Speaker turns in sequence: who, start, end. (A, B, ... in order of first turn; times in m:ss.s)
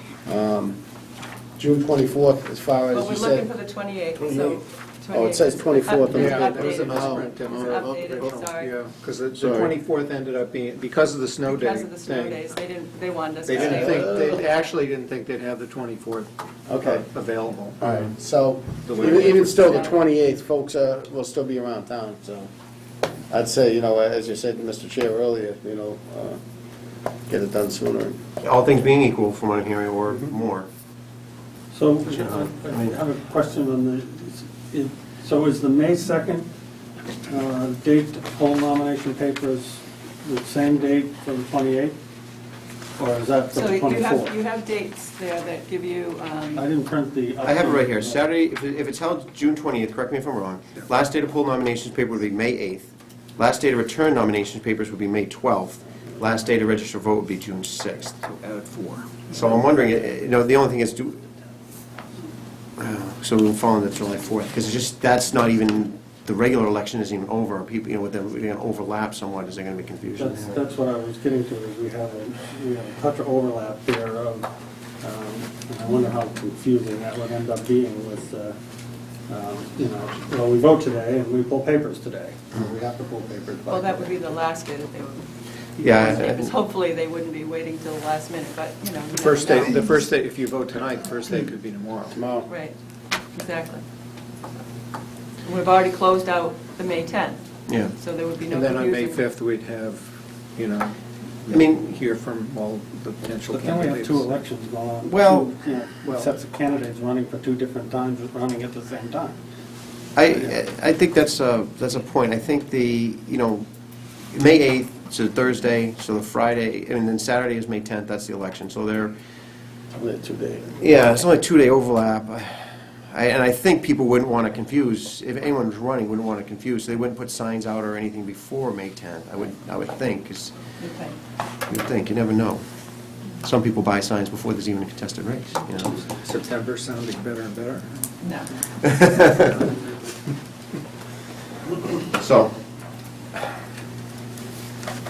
0:00.3-0:00.8 A
0:01.6-0:03.5 A
0:02.9-0:08.7 B
0:04.2-0:08.4 A
0:06.0-0:12.5 C
0:09.4-0:09.7 A
0:11.5-0:14.2 B
0:13.4-0:17.8 C
0:13.6-0:14.3 A
0:16.7-0:17.0 A
0:17.8-0:22.5 A
0:18.8-0:19.7 C
0:19.6-0:19.9 B
0:23.3-0:26.4 A
0:27.3-0:28.2 A
0:28.4-0:30.7 D
0:31.7-0:36.5 E
0:32.0-0:33.0 D
0:37.3-0:42.0 E
0:43.0-0:44.3 E
0:43.5-0:46.7 B
0:46.5-0:48.2 E
0:47.4-0:58.2 D
0:58.2-0:59.3 C
0:59.3-1:01.2 D
1:02.8-1:10.6 D
1:10.2-1:14.5 E
1:15.0-1:18.6 E
1:19.3-1:24.1 E
1:23.7-1:25.2 B
1:25.8-1:26.5 D
1:25.9-1:29.9 B
1:29.2-1:32.2 C
1:32.1-1:32.5 A
1:32.5-1:32.8 B
1:33.3-1:33.8 B
1:35.4-1:37.4 B
1:37.7-1:37.9 D
1:38.0-1:39.2 B
1:38.5-1:44.3 C
1:41.5-1:41.8 D
1:43.5-1:49.4 E
1:45.0-1:45.5 D
1:46.0-1:46.4 C
1:50.2-1:53.7 D
1:50.3-1:50.6 E
1:54.3-1:59.2 D
1:59.9-2:00.8 A
2:00.8-2:10.6 D
2:10.8-2:11.2 B
2:11.7-2:12.6 D
2:13.4-2:16.0 D
2:16.0-2:18.0 C
2:18.2-2:18.5 B
2:18.8-2:19.5 D
2:22.1-2:22.5 D